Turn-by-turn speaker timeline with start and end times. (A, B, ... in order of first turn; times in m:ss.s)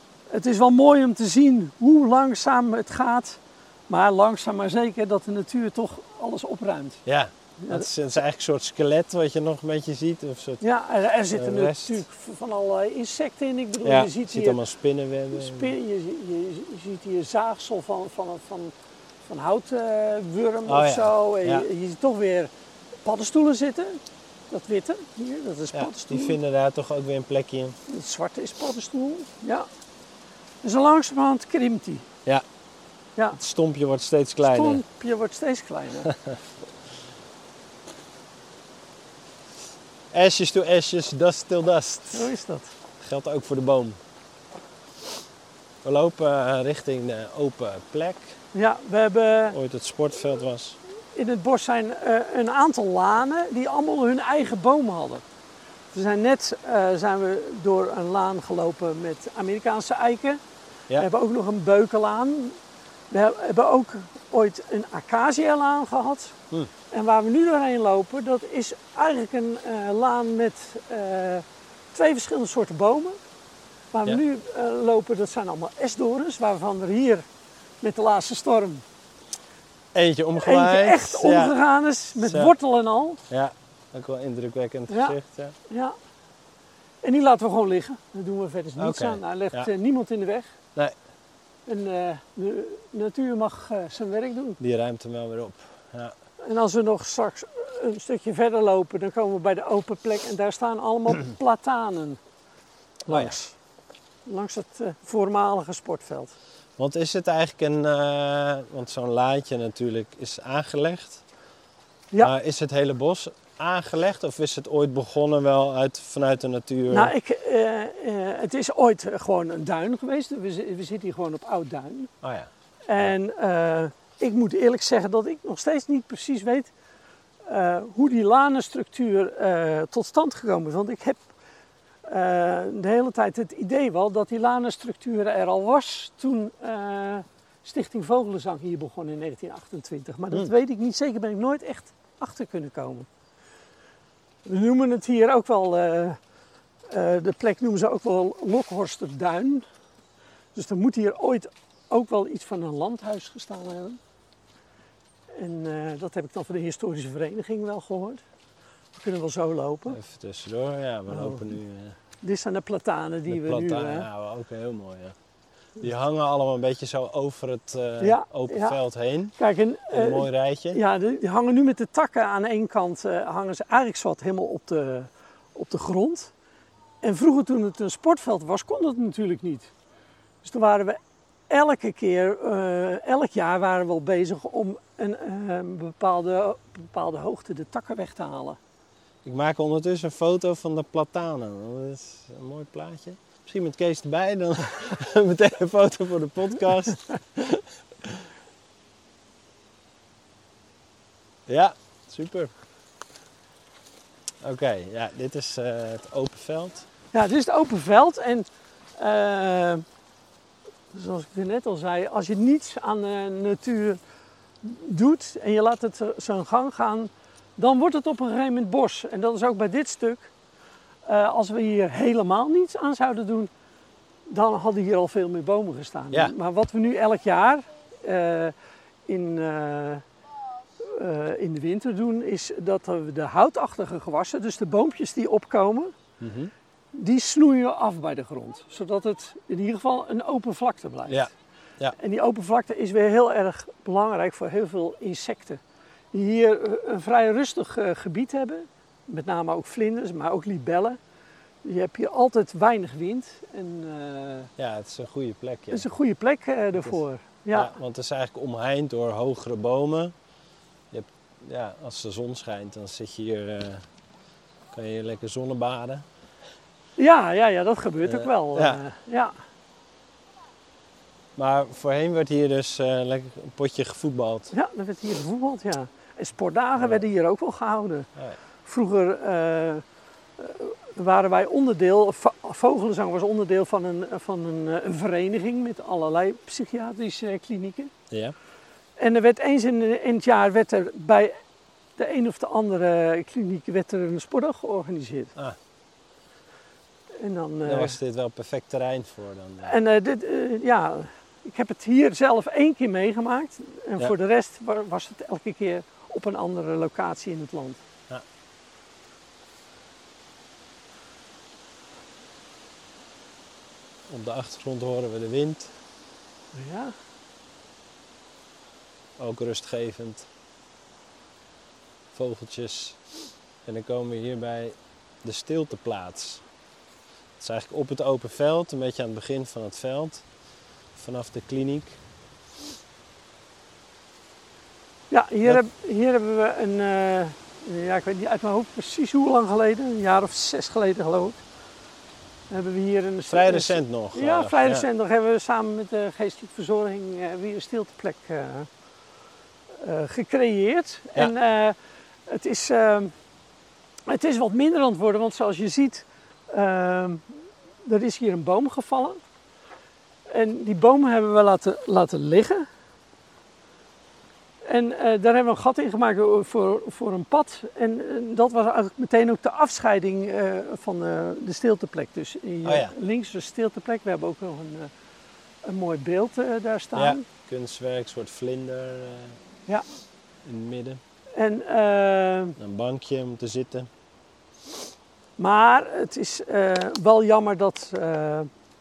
0:00.3-0:07.0 A
0:07.0-0:10.6 B
0:07.6-0:07.9 A
0:10.6-0:14.6 A
0:11.3-0:12.0 B
0:13.8-0:15.7 B
0:15.3-0:18.7 A
0:19.2-0:22.5 A
0:20.7-0:21.7 B
0:23.0-0:26.4 A
0:25.7-0:27.8 B
0:27.9-0:29.7 A
0:30.6-0:32.1 A
0:33.3-0:34.8 B
0:34.4-0:36.1 A
0:36.0-0:36.4 B
0:40.1-0:42.3 B
0:42.1-0:42.7 A
0:43.0-0:44.0 B
0:45.8-0:48.4 B
0:48.5-0:49.6 A
0:49.5-0:50.8 B
0:51.1-0:55.2 A
0:55.9-1:00.4 A
1:01.0-1:02.6 A
1:03.1-1:06.4 A
1:06.9-1:13.2 A
1:13.9-1:17.2 A
1:17.8-1:18.8 A
1:19.9-1:21.5 B
1:20.4-1:23.2 A
1:22.2-1:22.5 B
1:23.3-1:25.6 B
1:24.9-1:25.2 A
1:25.7-1:25.9 A
1:27.0-1:30.5 A
1:28.8-1:29.7 B
1:31.7-1:34.6 A
1:34.6-1:36.1 B
1:36.4-1:42.2 A
1:43.0-1:43.5 A
1:43.1-1:43.4 B
1:44.2-1:46.3 A
1:46.8-1:51.2 B
1:52.2-1:57.1 B
1:56.9-2:02.1 A
2:02.2-2:03.1 B
2:02.9-2:06.7 A
2:07.4-2:11.2 A
2:12.1-2:23.1 A
2:24.4-2:26.2 A
2:26.9-2:29.6 A
2:30.5-2:34.0 A
2:35.3-2:38.2 A
2:38.9-2:40.0 A
2:39.9-2:42.0 B
2:41.1-2:41.5 A
2:42.2-2:44.1 A
2:43.3-2:45.2 B
2:45.8-2:49.4 B
2:48.0-2:48.8 A
2:49.4-2:56.3 A
2:49.9-2:50.8 B
2:57.0-2:59.7 A
3:00.4-3:01.0 A
3:01.5-3:08.6 A
3:09.2-3:18.2 B
3:21.5-3:22.5 B
3:24.4-3:26.9 B
3:27.1-3:29.8 A
3:30.9-3:34.0 A
3:34.6-3:40.3 A
3:41.0-3:43.5 A
3:44.3-3:48.5 A
3:49.1-3:50.0 A
3:50.8-3:55.9 A
3:56.2-3:56.5 B
3:56.9-4:01.3 A
4:01.1-4:02.0 B
4:01.9-4:05.6 A
4:06.1-4:11.0 A
4:11.6-4:14.5 A
4:14.6-4:15.9 B
4:15.7-4:17.7 A
4:17.5-4:20.1 B
4:20.9-4:23.8 B
4:24.7-4:26.0 B
4:27.0-4:29.3 A
4:28.0-4:28.8 B
4:31.4-4:34.5 B
4:34.5-4:38.1 A
4:36.8-4:37.0 B
4:38.6-4:39.8 A
4:40.4-4:47.9 A
4:49.0-4:51.4 A
4:52.0-4:55.3 A
4:57.2-4:58.0 A
4:57.6-4:59.8 B
4:59.6-5:07.8 A
5:14.1-5:15.7 B
5:16.5-5:16.9 A
5:19.2-5:20.3 B
5:22.1-5:23.0 B
5:23.6-5:26.4 B
5:27.4-5:30.2 B
5:30.9-5:32.0 B
5:35.1-5:41.4 A
5:42.5-5:48.7 A
5:43.3-5:44.9 B
5:49.8-5:51.8 A
5:52.3-5:53.1 A
5:54.1-5:57.2 A
5:57.8-5:59.2 A
6:00.3-6:02.7 A
6:04.6-6:14.9 A
6:12.6-6:12.9 B
6:15.6-6:17.2 A
6:16.9-6:19.4 B
6:20.4-6:21.0 B
6:21.3-6:22.6 A
6:22.6-6:23.9 B
6:25.4-6:28.5 A